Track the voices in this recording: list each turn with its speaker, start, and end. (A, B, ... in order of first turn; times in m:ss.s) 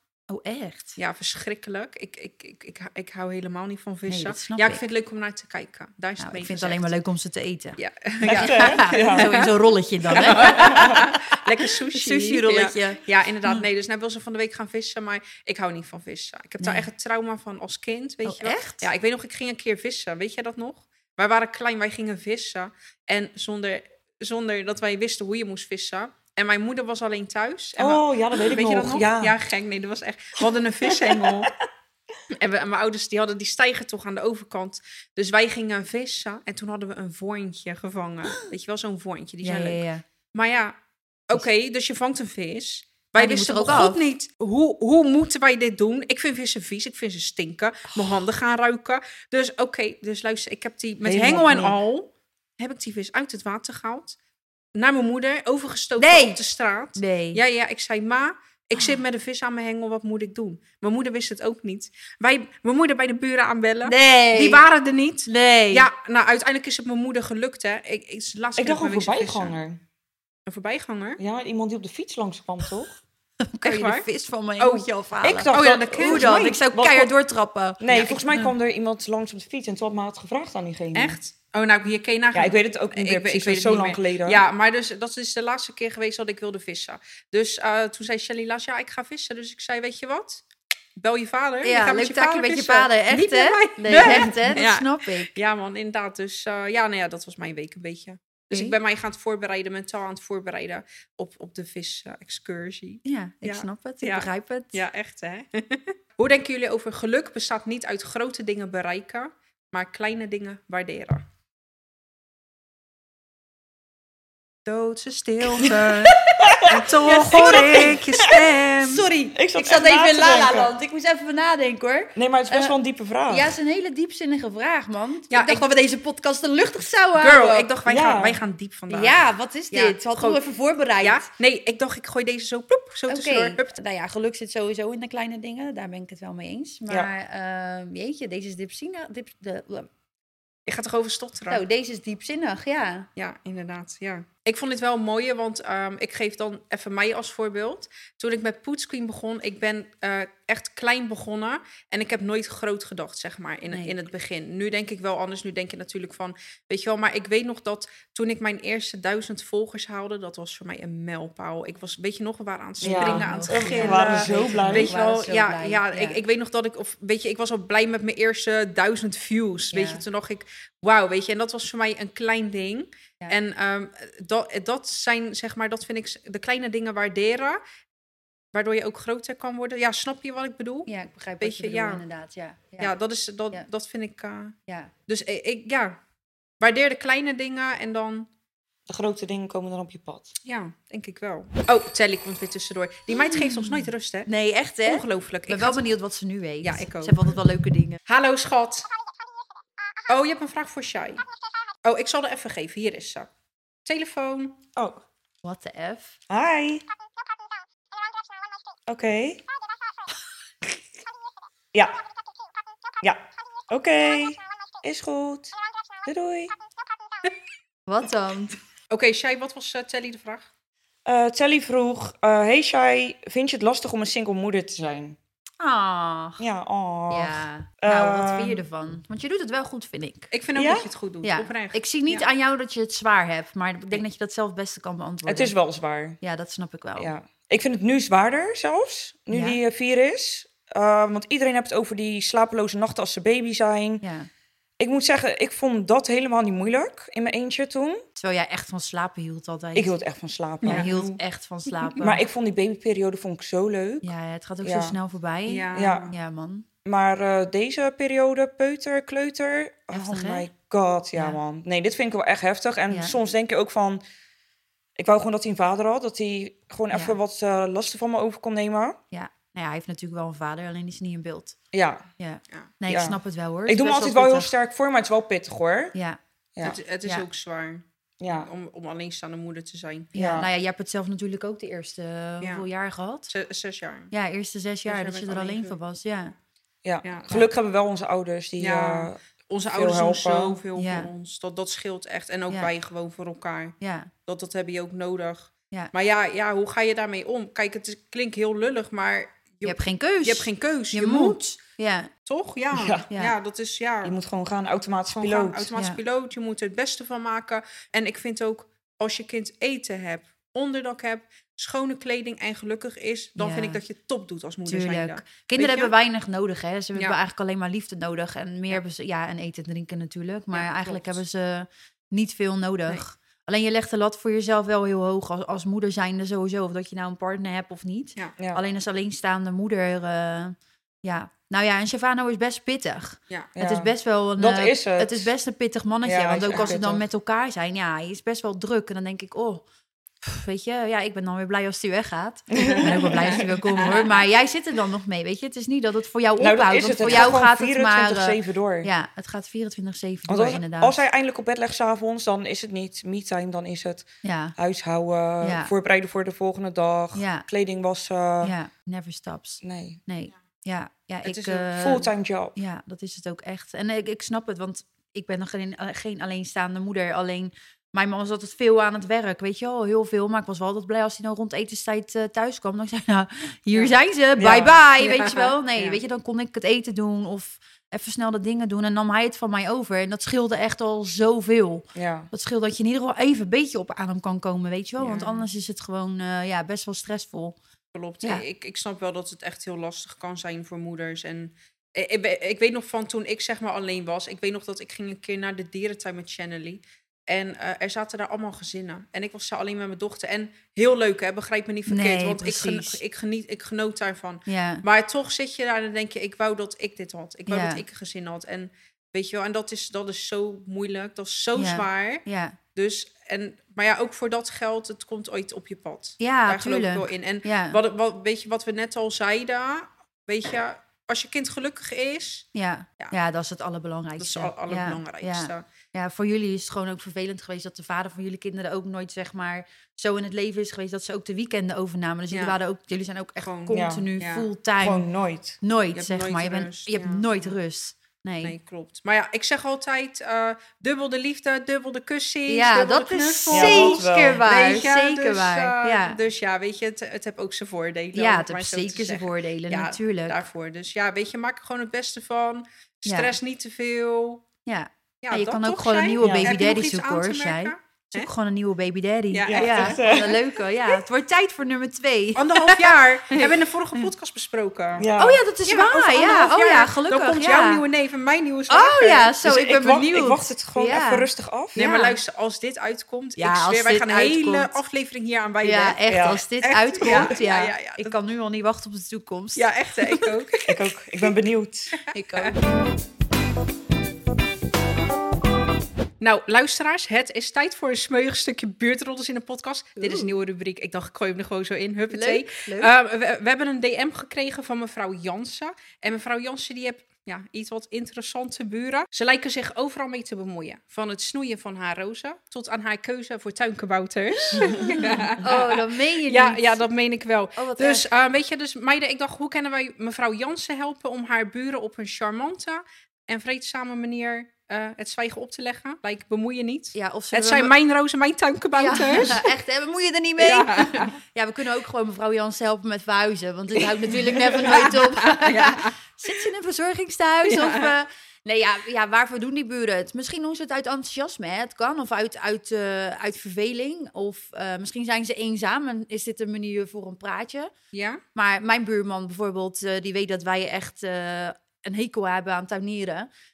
0:00.3-0:01.0 A
0:01.0-0:07.0 B
0:04.1-0:04.8 A
0:06.2-0:13.6 A
0:07.8-0:09.5 B
0:08.2-0:09.5 C
0:10.1-0:31.5 B
0:10.2-0:11.0 C
0:16.6-0:16.9 A
0:18.2-0:18.9 A
0:27.8-0:29.4 C
0:30.9-0:31.4 C
0:32.3-0:39.8 B
0:39.4-0:40.0 A
0:40.3-0:40.8 B
0:41.3-0:54.2 B
0:43.2-0:44.0 A
0:51.0-0:51.8 C
0:54.8-1:09.6 B
0:56.0-0:56.4 A
0:57.0-0:57.4 A
1:03.8-1:04.7 A
1:05.3-1:05.9 A
1:08.6-1:09.8 C
1:10.5-1:11.2 B
1:11.2-1:13.0 C
1:13.5-1:18.5 A
1:13.6-1:14.1 B
1:14.6-1:14.9 B
1:15.2-1:17.1 C
1:15.5-1:16.4 B
1:17.8-1:21.2 C
1:21.0-1:30.4 B
1:22.3-1:24.4 C
1:31.0-1:51.2 B
1:31.6-1:35.4 A
1:38.5-1:38.8 A
1:43.0-1:44.8 A
1:54.7-1:59.0 B
1:55.7-1:58.0 A
1:56.4-1:58.4 C
1:58.8-2:02.8 A
1:59.3-2:00.7 C
2:02.2-2:03.6 C
2:03.3-2:07.7 A
2:05.3-2:05.7 B
2:07.2-2:09.2 B
2:07.9-2:08.4 C
2:08.9-2:11.3 A
2:09.7-2:10.4 B
2:11.0-2:13.8 B
2:13.1-2:19.9 A
2:20.7-2:21.6 B
2:21.5-2:23.1 A
2:23.2-2:57.6 B
2:42.8-2:45.0 C
2:42.8-2:46.2 A
2:49.7-2:50.0 A
2:58.5-3:02.0 B
3:00.9-3:02.9 A
3:02.8-3:04.6 B
3:04.7-3:04.9 A
3:05.1-3:06.0 B
3:06.6-3:08.3 B
3:08.9-3:10.3 C
3:10.4-3:14.3 B
3:13.1-3:18.0 A
3:14.8-3:15.8 B
3:16.6-3:17.4 B
3:18.1-3:18.9 B
3:20.1-3:21.2 B
3:21.8-3:23.3 B
3:23.8-3:24.6 B
3:24.8-3:25.0 C
3:25.4-3:26.2 A
3:26.3-3:26.8 C
3:28.9-3:29.4 C
3:33.0-3:35.5 C
3:36.1-3:36.5 C
3:37.9-3:38.6 A
3:38.9-3:40.5 B
3:41.0-3:45.2 C
3:45.6-3:46.4 A
3:46.4-3:48.6 C
3:47.1-3:50.3 A
3:50.3-3:52.3 B
3:50.6-3:50.9 C
3:51.2-3:55.5 A
3:55.3-3:56.2 C
3:56.2-3:57.1 A
3:57.0-4:04.0 C
3:59.3-3:59.6 A
4:04.0-4:04.3 A
4:04.8-4:08.0 C
4:08.2-4:10.0 A
4:09.8-4:10.9 C
4:10.6-4:11.2 B
4:10.6-4:12.2 A
4:12.0-4:14.1 C
4:14.0-4:16.7 A
4:14.6-4:15.0 C
4:15.5-4:16.1 B
4:15.7-4:16.1 C
4:16.8-4:24.0 C
4:19.9-4:20.5 A
4:22.9-4:23.2 A
4:25.0-4:29.0 C
4:29.1-4:31.6 A
4:31.7-4:32.0 C
4:32.2-4:34.5 A
4:32.9-4:36.0 C
4:36.6-4:40.1 B
4:38.2-4:38.5 C
4:40.1-4:43.3 A
4:40.2-4:40.5 C
4:43.3-4:44.1 B
4:44.1-4:46.4 A
4:44.9-4:45.8 B
4:46.8-4:49.2 C
4:47.0-4:47.5 B
4:48.6-5:01.4 B
4:49.7-4:50.6 C
4:50.8-4:51.1 A
4:53.8-4:54.1 A
4:59.6-5:02.1 A
5:02.3-5:04.2 B
5:02.7-5:03.1 C
5:04.0-5:05.7 C
5:05.1-5:15.9 B
5:13.4-5:13.8 A
5:14.7-5:39.6 A
5:20.5-5:21.1 B
5:28.4-5:28.6 C
5:33.6-5:35.3 C
5:36.0-5:37.0 C
5:40.2-5:51.0 A
5:42.5-5:44.0 C
5:42.6-5:44.2 B
5:46.4-5:48.9 C
5:50.3-5:58.6 C
5:54.2-5:54.6 A
5:55.4-5:55.7 A
5:57.2-5:57.5 A
5:58.4-6:27.6 A
5:59.6-6:00.0 C
6:01.2-6:02.0 B
6:01.8-6:02.6 C
6:14.4-6:14.8 C
6:15.0-6:16.0 B
6:22.0-6:22.3 C
6:25.0-6:25.5 B
6:27.9-6:52.2 B
6:41.9-6:43.0 A
6:44.5-6:44.8 A
6:47.5-6:47.8 A
6:51.6-6:52.6 A
6:52.8-7:02.5 B
6:56.2-6:57.8 A
7:02.6-7:15.1 A
7:04.2-7:05.6 B
7:12.3-7:12.6 B
7:13.4-7:14.5 B
7:13.7-7:14.1 C
7:14.8-7:15.6 C
7:15.6-7:18.6 A
7:15.9-7:17.5 B
7:18.4-7:34.4 B
7:22.5-7:26.2 A
7:23.5-7:24.4 C
7:28.2-7:30.4 A
7:33.1-7:33.3 A
7:34.7-7:44.0 A
7:35.2-7:38.3 B
7:36.2-7:36.6 C
7:39.3-7:40.1 B
7:39.5-7:41.0 C
7:42.4-7:45.1 B
7:45.0-7:45.4 C
7:45.2-7:47.8 A
7:45.7-7:49.3 B
7:48.7-7:52.2 A
7:49.4-7:51.8 C
7:51.8-7:56.0 B
7:53.4-7:54.8 A
7:55.6-8:00.3 A
7:56.1-7:56.4 C
7:56.6-7:58.2 B
7:57.0-7:57.4 C
7:59.6-8:00.8 B
8:00.7-8:02.0 C
8:02.1-8:02.6 A
8:06.2-8:39.5 B
8:10.0-8:10.3 A
8:12.1-8:12.9 A
8:24.6-8:26.8 A
8:24.8-8:25.2 C
8:27.6-8:28.1 A
8:37.0-8:37.7 A
8:38.8-8:57.7 A
8:40.4-8:41.2 B
8:44.1-8:45.9 B
8:47.5-8:47.9 B
8:57.9-8:58.2 B
8:58.4-9:03.3 A